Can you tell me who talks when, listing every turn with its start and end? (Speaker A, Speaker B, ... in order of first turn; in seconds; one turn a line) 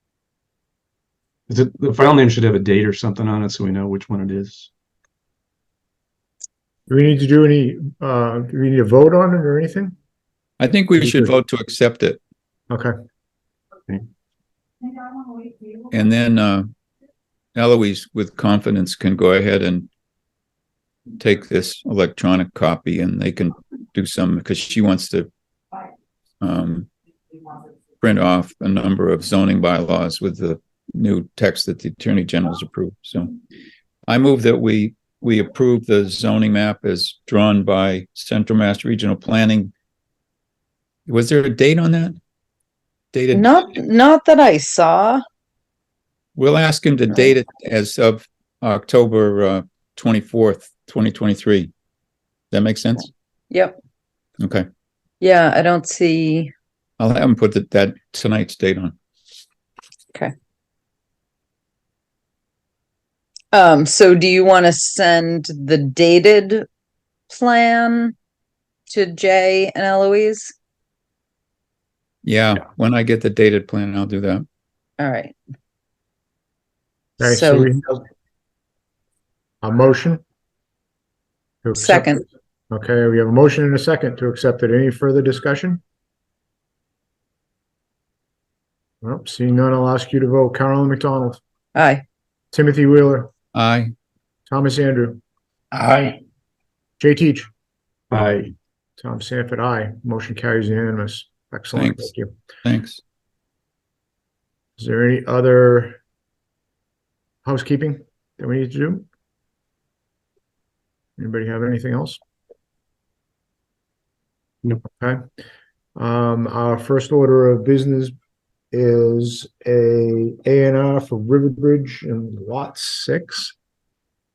Speaker A: 1.5-4.7
Speaker B: 6.9-9.9
Speaker C: 10.6-12.2
Speaker C: 15.9-16.7
Speaker C: 17.5-19.9
Speaker C: 21.2-25.3
Speaker C: 26.4-26.9
Speaker C: 28.0-33.3
Speaker C: 34.1-39.7
Speaker C: 41.1-42.2
Speaker C: 43.1-43.7
Speaker D: 43.3-45.2
Speaker C: 46.4-51.7
Speaker C: 52.5-53.1
Speaker D: 53.5-53.8
Speaker C: 54.4-54.7
Speaker D: 55.2-56.5
Speaker C: 57.0-58.9
Speaker D: 63.5-66.7
Speaker D: 67.3-68.1
Speaker D: 68.9-70.5
Speaker C: 72.2-74.5
Speaker D: 75.0-75.3
Speaker B: 77.2-78.0
Speaker D: 77.2-77.7
Speaker B: 79.6-80.2
Speaker B: 81.6-82.1
Speaker D: 81.8-82.2
Speaker B: 82.7-85.8
Speaker B: 89.0-91.4
Speaker D: 91.8-92.0
Speaker B: 92.5-93.3
Speaker C: 93.5-93.9
Speaker B: 94.5-95.2
Speaker B: 97.0-97.5
Speaker A: 98.1-98.5
Speaker B: 99.0-102.3
Speaker C: 101.8-102.1
Speaker C: 102.6-103.0
Speaker B: 104.8-106.0
Speaker B: 107.4-109.0
Speaker B: 111.2-112.2
Speaker B: 116.0-118.1
Speaker B: 118.7-123.5